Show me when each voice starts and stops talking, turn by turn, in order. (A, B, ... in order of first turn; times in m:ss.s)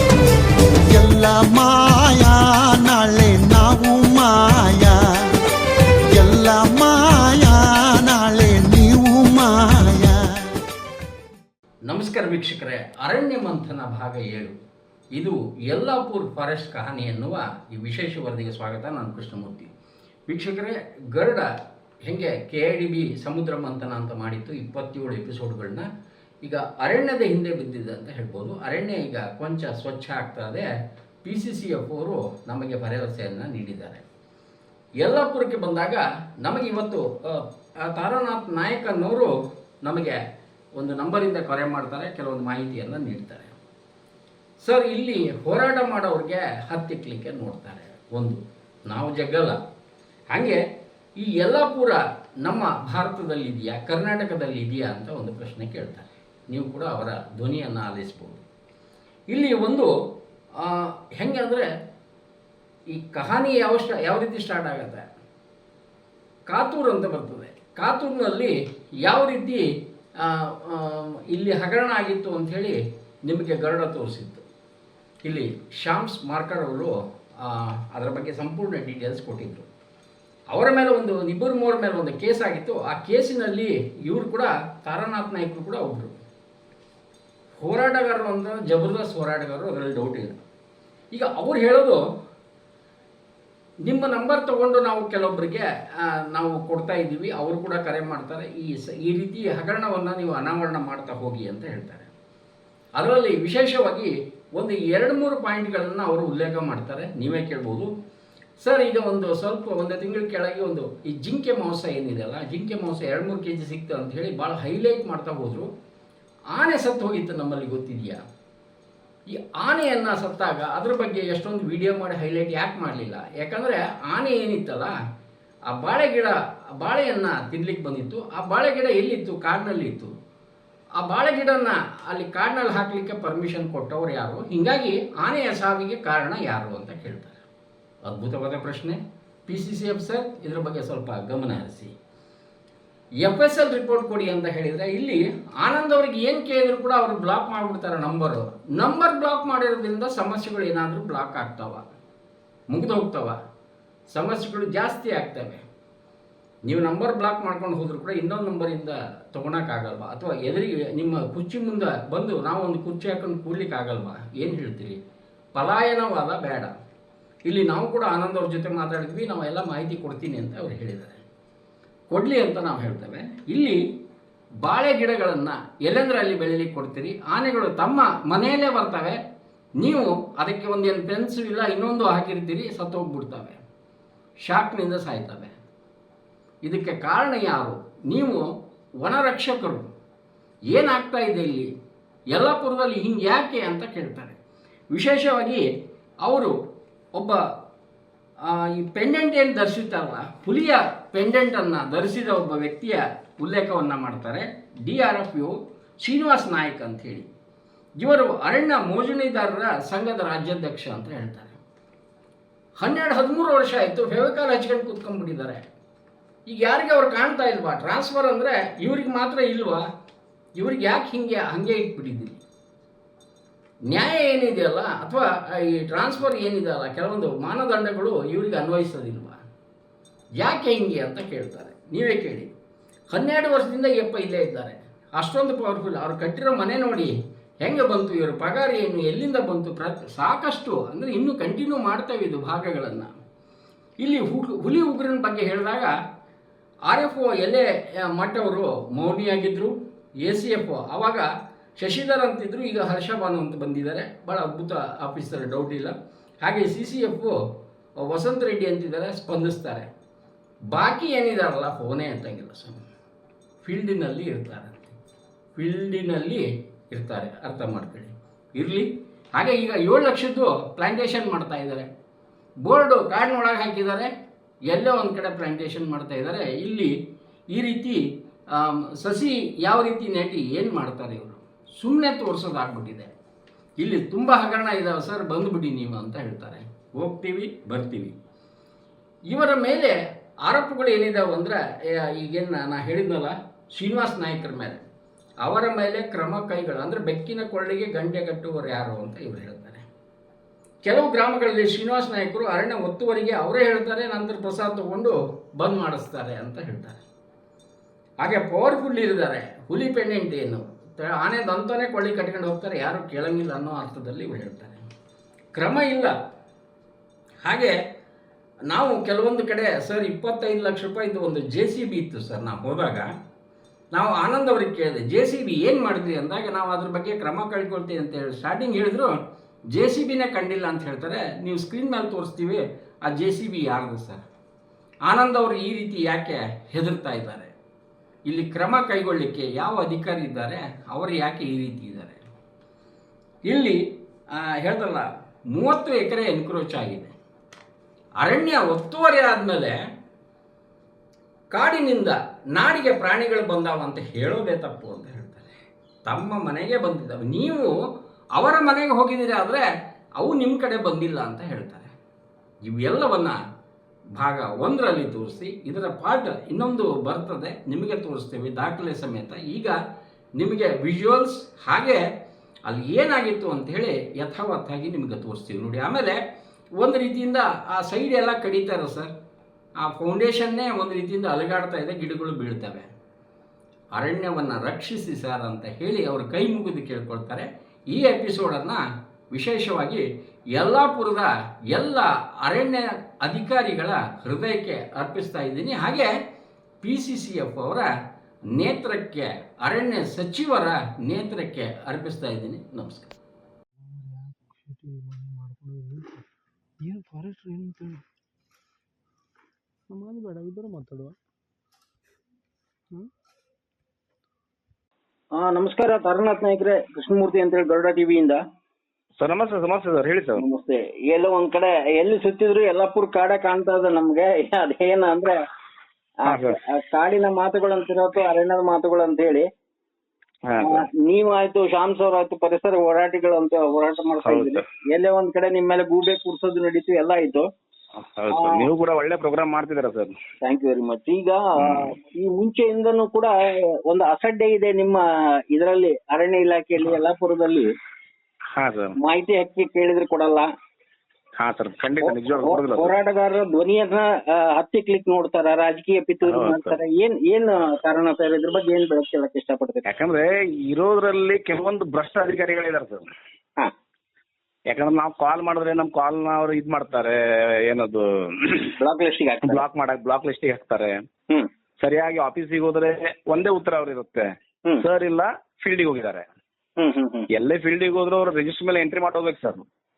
0:00.9-0:05.0 A
0:06.1-0:10.2 A
0:11.9-0:14.6 B
0:15.2-0:19.7 B
0:20.3-0:21.5 B
0:22.1-0:25.9 B
0:26.4-0:30.7 B
0:31.2-0:34.0 B
0:35.0-0:39.3 B
0:39.8-0:40.2 B
0:40.8-0:43.5 B
0:44.6-0:49.6 B
0:50.3-0:50.6 B
0:51.2-0:58.4 B
0:59.3-0:59.9 B
1:00.6-1:01.7 B
1:02.9-1:05.0 B
1:06.5-1:09.6 B
1:10.2-1:14.4 B
1:15.2-1:19.7 B
1:20.5-1:26.2 B
1:27.6-1:30.4 B
1:31.1-1:32.0 B
1:33.8-1:35.6 B
1:36.3-1:42.1 B
1:43.0-1:47.9 B
1:48.6-1:55.7 B
1:56.5-1:58.2 B
1:59.3-2:05.0 B
2:05.7-2:10.2 B
2:11.0-2:17.4 B
2:18.1-2:21.9 B
2:23.2-2:31.8 B
2:32.7-2:33.4 B
2:34.1-2:35.6 B
2:36.7-2:45.0 B
2:45.6-2:46.8 B
2:47.5-2:51.2 B
2:52.1-2:53.8 B
2:54.6-2:59.2 B
2:59.8-3:03.6 B
3:04.5-3:05.6 B
3:06.6-3:09.9 B
3:10.7-3:11.7 B
3:12.3-3:14.4 B
3:14.9-3:15.6 B
3:16.2-3:16.5 B
3:18.5-3:27.3 B
3:28.0-3:31.6 B
3:32.8-3:35.6 B
3:36.5-3:39.9 B
3:40.6-3:42.4 B
3:43.9-3:49.4 B
3:50.4-3:52.5 B
3:53.1-3:57.1 B
3:57.6-4:03.1 B
4:04.0-4:05.9 B
4:06.9-4:11.3 B
4:11.8-4:17.4 B
4:18.0-4:19.9 B
4:20.7-4:22.8 B
4:23.6-4:24.8 B
4:25.6-4:31.9 B
4:32.6-4:34.1 B
4:34.7-4:36.9 B
4:37.5-4:38.0 B
4:38.6-4:43.1 B
4:43.8-4:48.2 B
4:49.3-4:49.9 B
4:50.5-4:54.8 B
4:55.4-4:59.8 B
5:00.8-5:07.0 B
5:08.2-5:14.8 B
5:15.6-5:16.1 B
5:17.4-5:17.8 B
5:18.7-5:23.1 B
5:23.9-5:29.1 B
5:29.7-5:34.2 B
5:35.1-5:37.5 B
5:38.3-5:42.2 B
5:43.5-5:47.1 B
5:48.2-5:49.8 B
5:51.5-5:55.5 B
5:56.1-5:57.7 B
5:58.4-5:59.7 B
6:00.2-6:01.9 B
6:02.6-6:03.4 B
6:04.2-6:09.8 B
6:10.4-6:12.0 B
6:12.7-6:16.2 B
6:16.8-6:19.1 B
6:19.8-6:22.9 B
6:24.0-6:28.8 B
6:29.3-6:30.0 B
6:30.6-6:36.1 B
6:36.8-6:37.9 B
6:38.6-6:43.1 B
6:43.8-6:46.2 C
6:46.8-6:48.0 C
6:49.9-6:51.2 C
6:55.4-6:58.4 D
6:59.2-7:00.4 E
7:00.4-7:05.4 D
7:06.2-7:09.5 D
7:06.3-7:06.6 E
7:10.5-7:10.8 E
7:10.6-7:17.5 D
7:14.2-7:14.6 E
7:18.2-7:20.2 E
7:18.3-7:18.7 D
7:20.4-7:27.7 D
7:21.6-7:21.9 E
7:28.6-7:29.0 E
7:29.0-7:30.5 D
7:31.4-7:32.9 E
7:32.0-7:39.8 D
7:36.3-7:36.8 E
7:39.9-7:43.0 E
7:44.7-7:48.7 E
7:48.8-7:49.6 D
7:49.4-7:51.0 E
7:51.8-7:56.2 E
7:56.8-7:57.3 D
7:57.3-7:59.6 E